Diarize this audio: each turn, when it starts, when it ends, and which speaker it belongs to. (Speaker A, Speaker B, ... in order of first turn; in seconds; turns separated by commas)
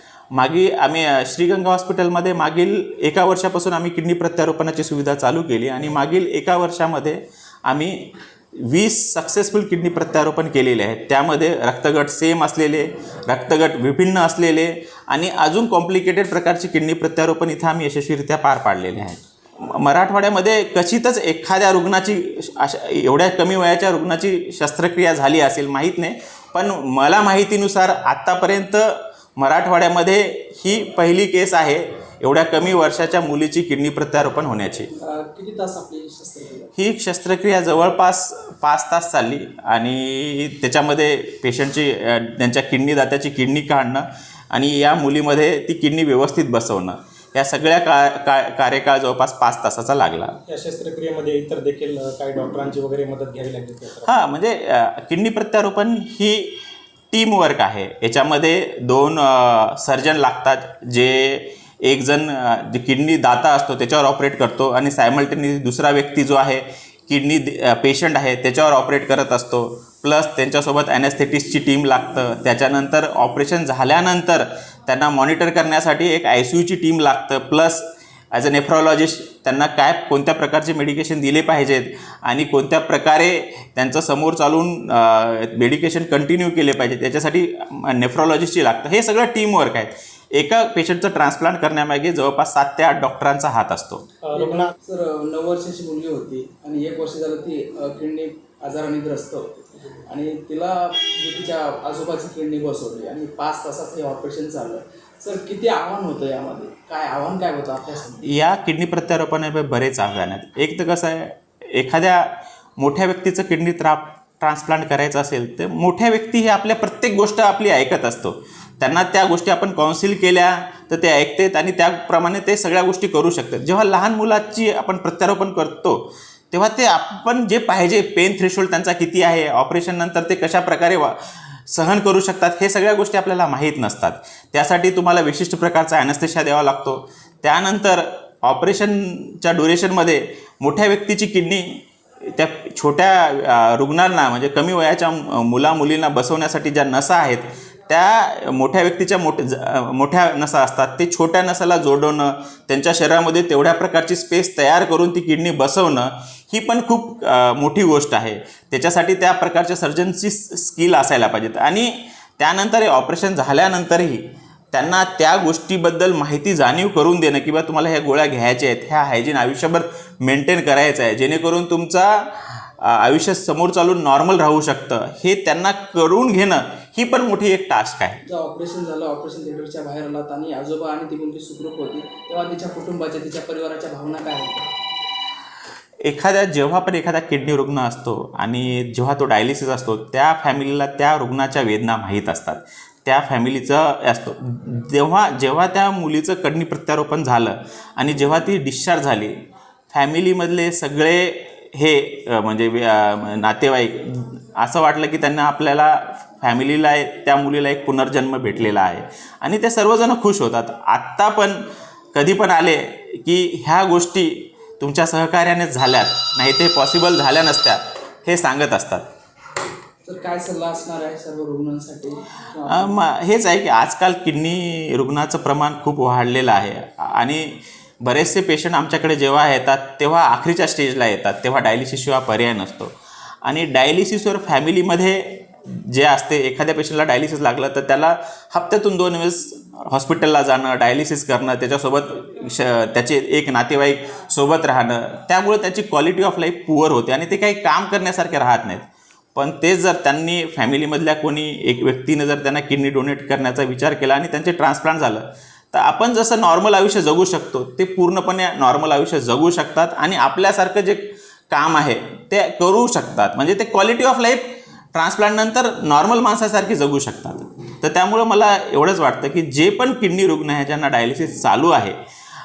Speaker A: 0.3-34.9, Speaker B: 35.0-36.7, Speaker A: 36.8-50.4, Speaker C: 50.5-54.1, Speaker A: 54.0-94.0, Speaker C: 94.2-94.7, Speaker B: 94.3-108.3, Speaker A: 108.2-178.2, Speaker B: 178.2-184.7, Speaker A: 186.0-199.4, Speaker A: 199.9-211.6, Speaker A: 212.1-219.1, Speaker B: 220.1-222.9, Speaker A: 222.7-272.0